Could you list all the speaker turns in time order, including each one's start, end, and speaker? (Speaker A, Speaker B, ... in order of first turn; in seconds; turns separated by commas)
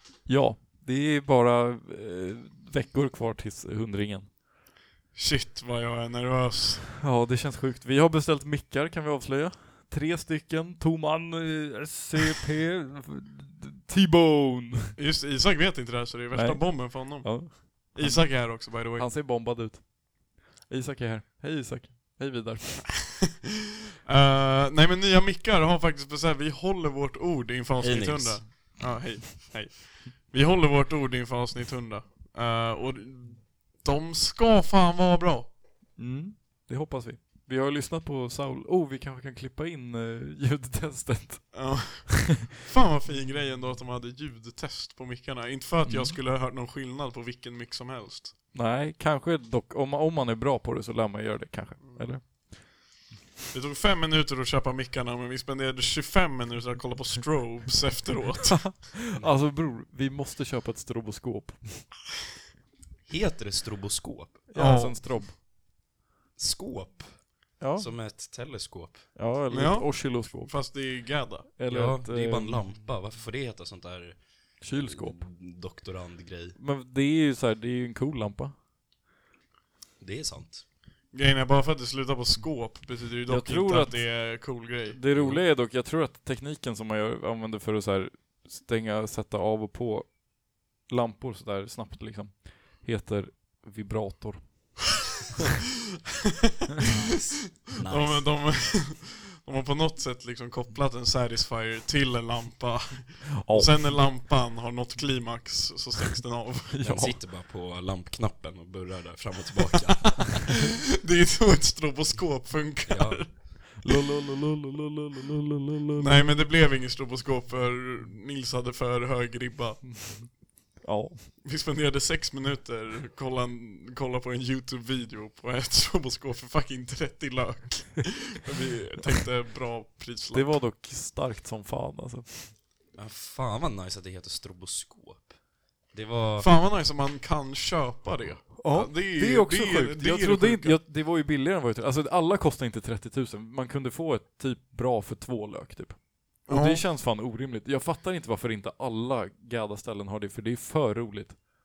Speaker A: 0.2-4.3, Speaker B: 5.1-6.9, Speaker A: 7.0-15.0, Speaker B: 15.0-19.1, Speaker A: 16.3-23.1, Speaker B: 24.1-35.5, Speaker C: 27.8-28.5, Speaker A: 36.0-42.4, Speaker B: 41.5-48.3, Speaker A: 45.8-46.2, Speaker A: 48.5-52.7, Speaker B: 51.8-52.2, Speaker B: 53.5-58.8, Speaker A: 58.6-61.9, Speaker C: 63.0-64.4, Speaker A: 64.5-65.4, Speaker B: 64.5-65.2, Speaker C: 66.4-69.1, Speaker A: 67.6-67.9, Speaker A: 69.1-70.6, Speaker B: 69.5-71.5, Speaker A: 71.6-72.7, Speaker C: 71.7-76.6, Speaker A: 74.6-75.2, Speaker A: 76.6-78.5, Speaker C: 80.0-80.6, Speaker B: 81.1-85.0, Speaker A: 83.3-84.0, Speaker A: 84.9-94.8, Speaker C: 96.8-98.5, Speaker B: 97.9-106.8, Speaker A: 103.4-103.9, Speaker A: 106.7-107.1, Speaker C: 106.8-110.4, Speaker B: 110.1-113.4, Speaker C: 112.9-113.5, Speaker A: 113.8-116.3, Speaker B: 116.0-120.2, Speaker A: 120.0-121.2, Speaker B: 121.4-130.6, Speaker A: 130.3-132.5, Speaker C: 133.0-135.4, Speaker C: 135.9-136.5, Speaker B: 136.4-140.8, Speaker A: 138.6-151.4, Speaker B: 146.4-146.8